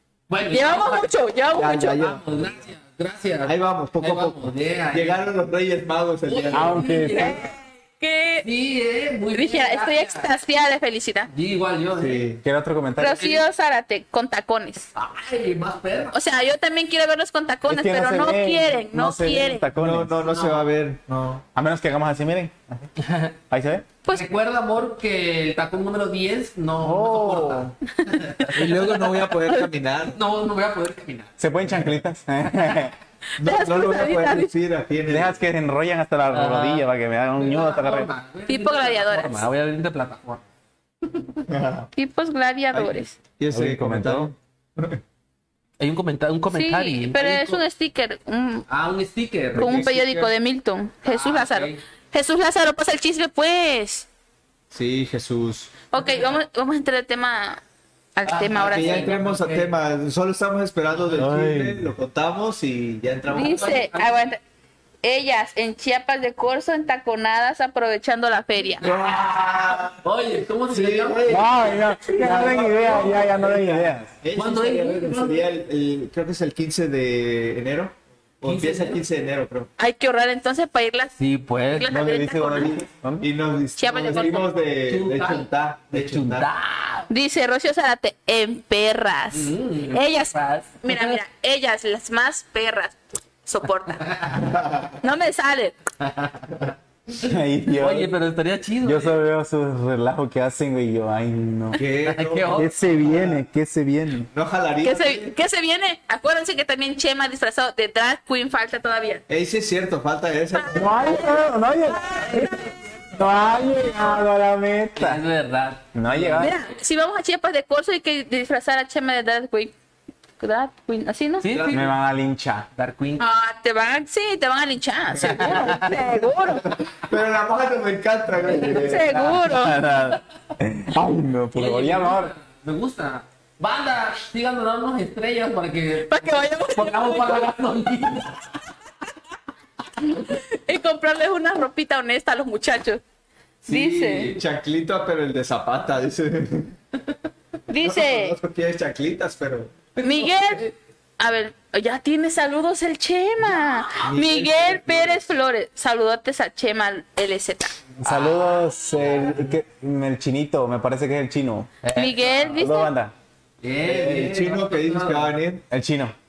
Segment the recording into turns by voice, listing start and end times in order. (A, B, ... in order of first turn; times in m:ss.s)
0:00.3-0:01.1 A
0:00.5-0:02.0 B
0:01.5-0:02.6 C
0:01.9-0:05.3 A
0:03.4-0:06.8 C
0:06.2-0:07.5 A
0:06.5-0:07.5 D
0:07.1-0:08.5 B
0:08.4-0:10.3 A
0:09.3-0:11.3 B
0:11.3-0:12.2 A
0:12.0-0:12.4 C
0:12.4-0:13.3 D
0:13.0-0:14.9 B
0:14.9-0:16.2 A
0:16.1-0:19.7 B
0:17.7-0:20.2 D
0:19.7-0:21.4 C
0:20.3-0:20.7 A
0:21.5-0:22.9 D
0:23.0-0:23.3 A
0:23.5-0:23.8 D
0:24.1-0:29.0 A
0:26.8-0:27.7 D
0:28.5-0:30.2 C
0:30.1-0:31.3 A
0:31.4-0:33.0 D
0:33.4-0:34.5 B
0:33.4-0:35.4 C
0:35.1-0:38.1 D
0:36.3-0:40.4 A
0:38.5-0:39.4 B
0:41.0-0:41.4 A
0:41.5-0:41.9 C
0:42.0-0:43.1 B
0:42.7-0:45.0 C
0:43.5-0:44.3 D
0:45.8-0:47.6 A
0:46.5-0:48.6 B
0:48.7-0:49.7 A
0:49.5-0:50.3 C
0:49.6-0:54.1 B
0:51.0-0:51.8 A
0:54.7-0:55.7 C
0:55.9-0:57.6 B
0:58.2-0:59.1 B
0:58.2-0:59.7 A
0:58.6-1:03.8 C
1:01.2-1:01.9 D
1:03.3-1:04.2 A
1:03.3-1:04.4 B
1:05.0-1:08.8 B
1:08.8-1:10.0 C
1:10.0-1:11.6 A
1:10.7-1:19.7 C
1:11.3-1:14.1 D
1:12.2-1:12.8 A
1:14.3-1:15.5 A
1:18.4-1:19.0 A
1:19.8-1:21.1 B
1:21.2-1:22.0 A
1:21.7-1:22.8 B
1:21.9-1:23.3 D
1:23.2-1:26.5 C
1:23.8-1:24.5 B
1:24.8-1:27.1 A
1:27.1-1:34.3 B
1:29.3-1:31.2 A
1:34.0-1:34.5 A
1:34.3-1:35.0 C
1:35.0-1:35.8 B
1:36.0-1:36.6 A
1:37.2-1:38.1 D
1:37.7-1:39.2 A
1:38.8-1:41.8 D
1:41.7-1:43.4 C
1:42.0-1:42.8 A
1:42.5-1:44.3 D
1:44.3-1:45.3 C
1:44.8-1:49.2 B
1:49.3-1:51.2 C
1:50.5-1:52.7 B
1:50.7-1:55.2 D
1:55.0-1:56.5 A
1:55.9-1:56.5 D
1:56.4-1:59.7 B
2:00.4-2:01.4 B
2:01.4-2:01.9 A
2:01.5-2:01.9 C
2:01.7-2:02.7 D
2:02.7-2:03.2 A
2:03.2-2:06.8 B
2:05.2-2:06.0 C
2:05.2-2:06.0 A
2:06.6-2:09.3 C
2:08.5-2:09.8 B
2:09.1-2:12.3 D
2:11.5-2:18.6 A
2:16.1-2:17.5 B
2:20.0-2:23.0 B
2:23.7-2:24.3 B
2:23.7-2:26.8 C
2:27.7-2:28.4 B
2:27.7-2:29.7 C
2:30.0-2:30.7 A
2:30.0-2:37.7 B
2:34.0-2:35.2 C
2:38.0-2:41.7 D
2:38.0-2:38.7 A
2:41.8-2:42.6 A
2:41.9-2:42.9 B
2:42.5-2:43.1 D
2:43.6-2:45.4 A
2:43.8-2:45.6 C
2:45.7-2:46.1 D